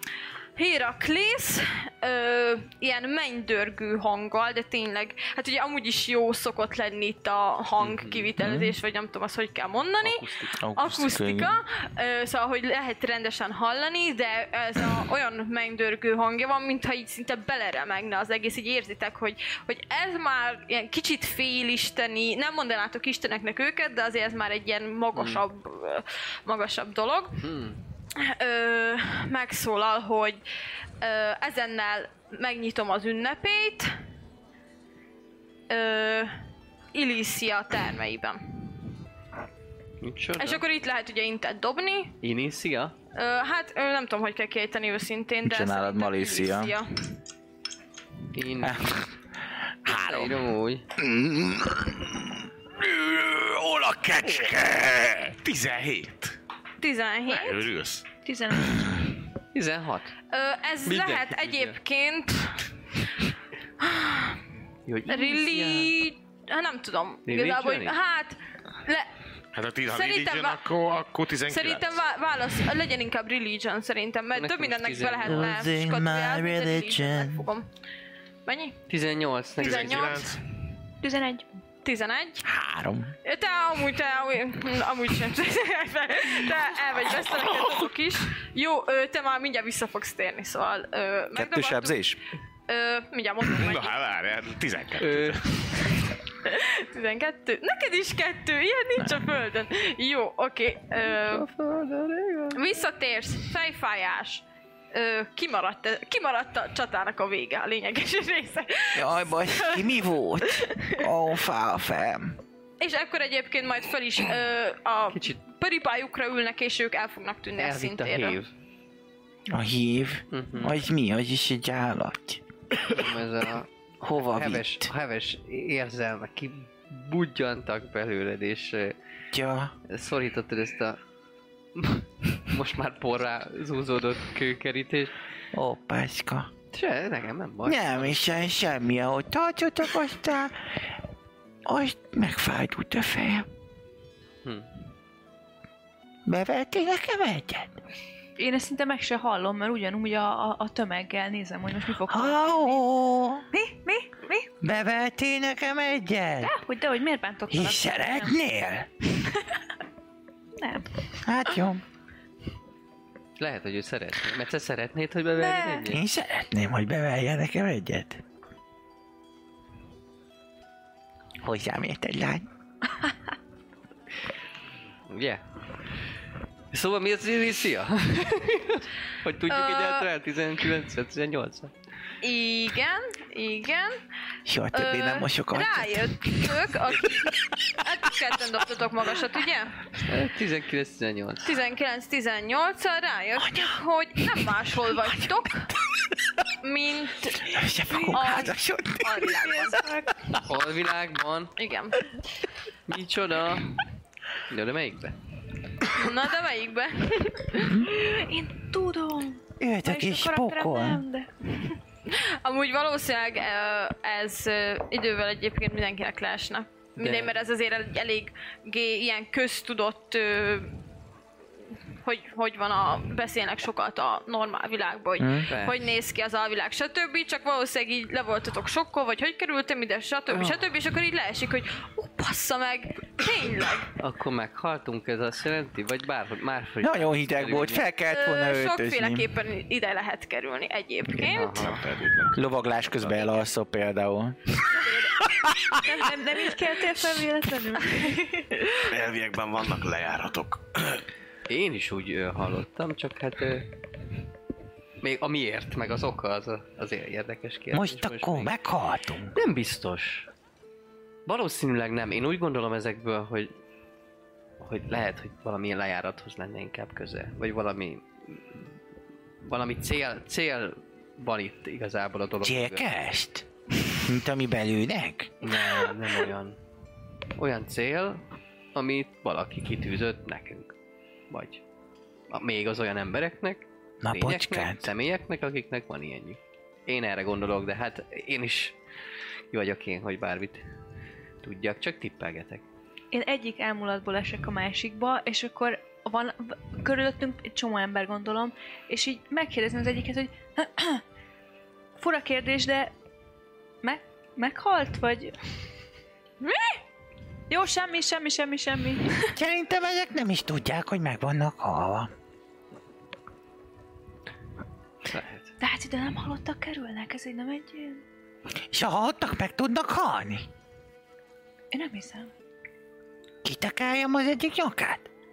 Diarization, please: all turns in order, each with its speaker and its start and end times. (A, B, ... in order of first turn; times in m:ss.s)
0:00.6-0:27.4 A
0:07.8-0:08.3 B
0:08.4-0:08.8 C
0:10.5-0:11.6 C
0:25.2-0:25.4 B
0:27.4-0:27.8 B
0:28.2-0:30.4 A
0:31.0-0:33.9 A
0:35.7-0:36.3 A
0:36.9-0:38.7 A
0:40.0-0:40.6 B
0:40.4-0:42.2 A
0:42.2-0:43.0 B
0:43.1-0:47.1 A
0:45.4-0:46.8 C
0:48.3-0:48.9 B
0:48.6-0:49.1 C
0:49.8-0:50.4 C
0:49.9-0:50.8 B
0:51.0-0:55.3 C
0:54.2-0:54.6 D
0:55.3-0:56.4 D
0:56.8-0:57.7 A
0:57.3-0:58.1 D
0:58.2-0:59.1 E
0:59.5-1:00.2 B
1:00.3-1:02.7 A
1:00.8-1:01.8 B
1:03.8-1:04.4 A
1:04.9-1:05.9 B
1:05.1-1:09.1 A
1:07.3-1:08.0 B
1:09.5-1:12.0 D
1:09.9-1:10.6 A
1:11.5-1:17.7 A
1:14.4-1:15.6 B
1:15.2-1:17.5 C
1:18.5-1:18.8 A
1:18.9-1:20.2 B
1:19.6-1:20.4 A
1:19.6-1:20.4 D
1:21.0-1:21.6 E
1:21.8-1:22.5 A
1:22.4-1:23.2 C
1:23.2-1:32.0 A
1:31.4-1:32.2 C
1:32.7-1:34.0 A
1:33.5-1:35.6 D
1:35.0-1:35.9 B
1:36.4-1:41.5 A
1:39.0-1:39.3 C
1:41.0-1:42.6 B
1:42.5-1:51.1 A
1:49.0-1:52.4 C
1:52.8-1:58.4 A
1:55.1-1:55.4 B
1:57.6-1:58.5 B
1:59.5-2:03.1 C
2:00.3-2:00.8 B
2:02.9-2:09.0 B
2:04.0-2:04.9 C
2:09.3-2:09.7 C
2:09.9-2:11.0 B
2:11.8-2:15.2 B
2:15.5-2:16.5 C
2:16.7-2:18.6 B
2:17.6-2:20.9 C
2:21.7-2:23.5 C
2:26.3-2:27.8 C
2:28.4-2:32.8 E
2:32.1-2:33.5 C
2:33.5-2:34.5 E
2:34.6-2:36.6 C
2:36.4-2:38.3 E
2:37.5-2:38.9 C
2:40.6-2:41.0 E
2:41.2-2:41.8 C
2:43.4-2:46.0 B
2:45.4-2:45.9 E
2:45.9-2:48.2 C
2:51.4-2:52.5 C
2:55.1-2:55.4 B
2:56.7-3:01.7 B
2:59.5-3:00.1 A
3:02.2-3:04.0 A
3:04.5-3:06.5 C
3:04.7-3:09.8 A
3:10.0-3:11.5 B
3:11.4-3:15.7 A
3:13.4-3:13.8 C
3:15.1-3:15.3 C
3:15.9-3:16.3 C
3:16.6-3:19.9 A
3:17.4-3:19.7 C
3:17.9-3:18.2 E
3:19.2-3:20.2 E
3:20.4-3:21.5 B
3:21.6-3:22.0 A
3:22.9-3:23.8 B
3:24.5-3:25.2 B
3:25.9-3:27.8 A
3:27.6-3:27.9 C
3:27.8-3:31.3 E
3:29.6-3:31.0 C
3:31.6-3:40.7 A
3:37.0-3:37.4 B
3:42.0-3:53.9 A
3:45.2-3:45.5 C
3:45.5-3:45.9 B
3:50.3-3:50.7 B
3:54.0-3:57.8 B
3:56.8-3:59.3 C
3:58.1-4:01.6 A
4:01.3-4:02.0 B
4:01.5-4:02.4 D
4:02.3-4:04.6 C
4:05.3-4:05.8 C
4:05.8-4:08.6 E
4:08.9-4:11.0 D
4:11.5-4:13.7 B
4:15.0-4:18.5 B
4:17.7-4:19.4 C
4:19.3-4:20.3 B
4:21.3-4:23.5 B
4:24.6-4:28.8 B
4:29.4-4:32.9 B
4:32.4-4:35.5 C
4:35.4-4:36.6 B
4:37.4-4:38.2 B
4:38.8-4:40.7 B
4:41.3-4:41.6 B
4:42.3-4:48.8 B
4:44.0-4:44.9 C
4:49.5-4:50.6 B
4:51.4-4:52.6 B
4:53.1-5:01.0 E
5:02.0-5:02.9 E
5:03.8-5:05.4 E
5:06.4-5:06.8 A
5:07.5-5:09.3 E
5:09.3-5:12.1 C
5:15.0-5:15.5 B
5:15.6-5:18.0 E
5:18.7-5:20.5 C
5:21.7-5:22.3 E
5:23.4-5:25.1 C